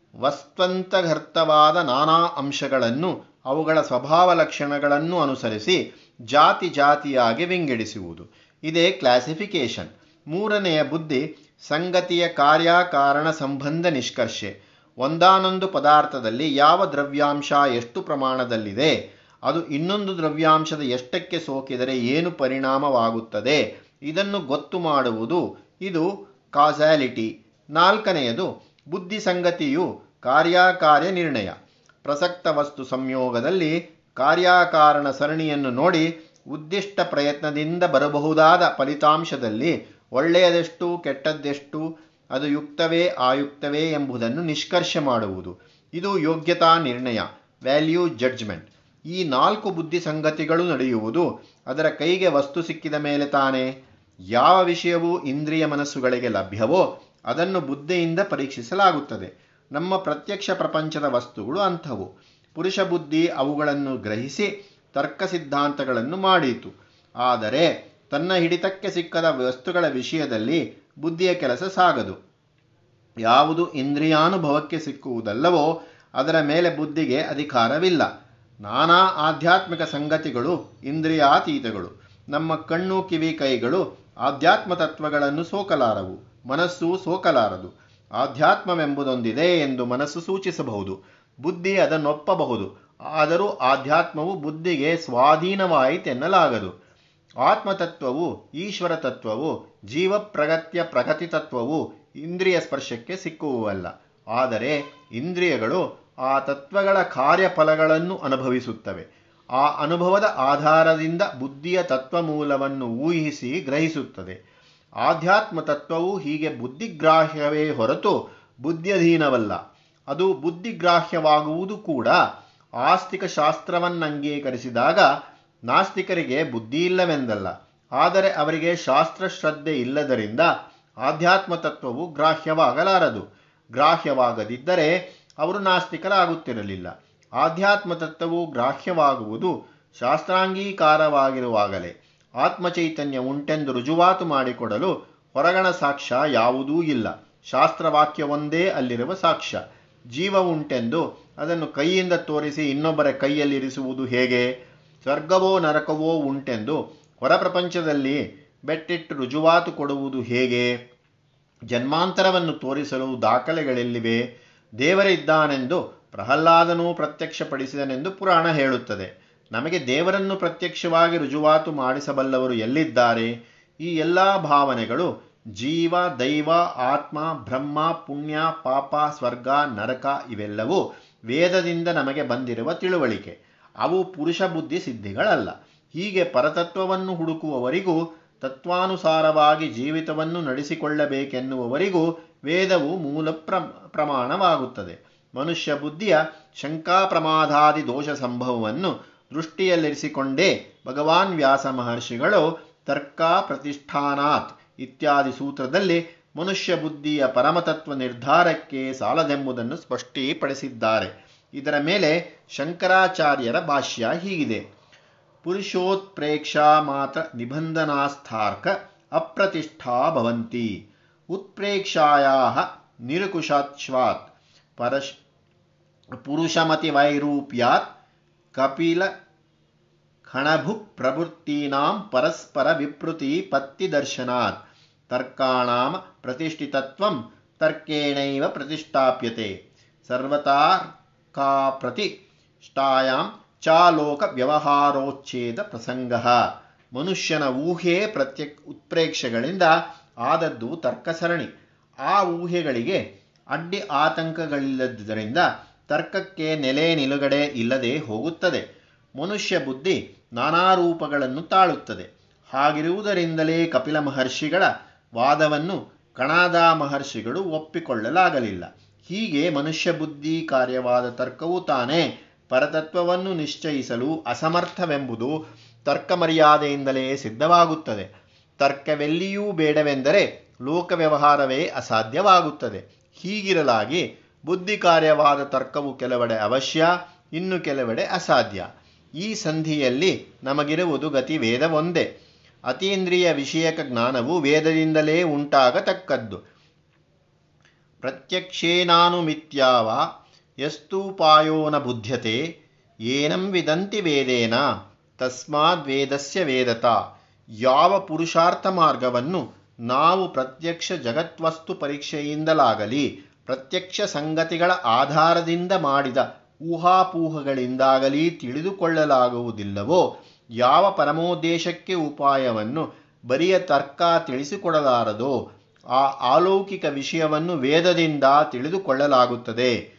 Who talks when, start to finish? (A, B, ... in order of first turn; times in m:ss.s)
0:00.2-0:05.8 A
0:06.3-0:18.9 A
0:19.5-0:53.7 A
0:54.3-1:12.2 A
1:13.2-1:18.1 A
1:18.6-1:36.7 A
1:37.4-1:49.1 A
1:49.6-1:54.4 A
1:55.0-1:59.6 A
2:00.1-2:02.2 A
2:02.8-2:05.1 A
2:05.7-2:10.5 A
2:11.0-2:13.2 A
2:13.8-2:29.6 A
2:30.1-2:40.7 A
2:41.7-2:44.2 A
2:44.8-3:34.6 A
3:35.4-3:40.8 A
3:41.3-3:45.2 A
3:46.2-3:47.9 A
3:48.5-3:49.1 A
3:50.2-3:54.6 A
3:55.1-3:59.5 A
4:00.0-4:02.1 A
4:02.6-4:11.5 A
4:12.1-4:18.6 A
4:19.2-4:48.7 A
4:49.2-4:52.1 A
4:52.7-4:56.4 A
4:58.0-5:00.1 A
5:00.6-5:02.5 A
5:03.1-5:04.6 A
5:05.2-5:07.0 A
5:07.6-5:20.0 A
5:20.6-5:25.4 A
5:25.9-5:29.8 A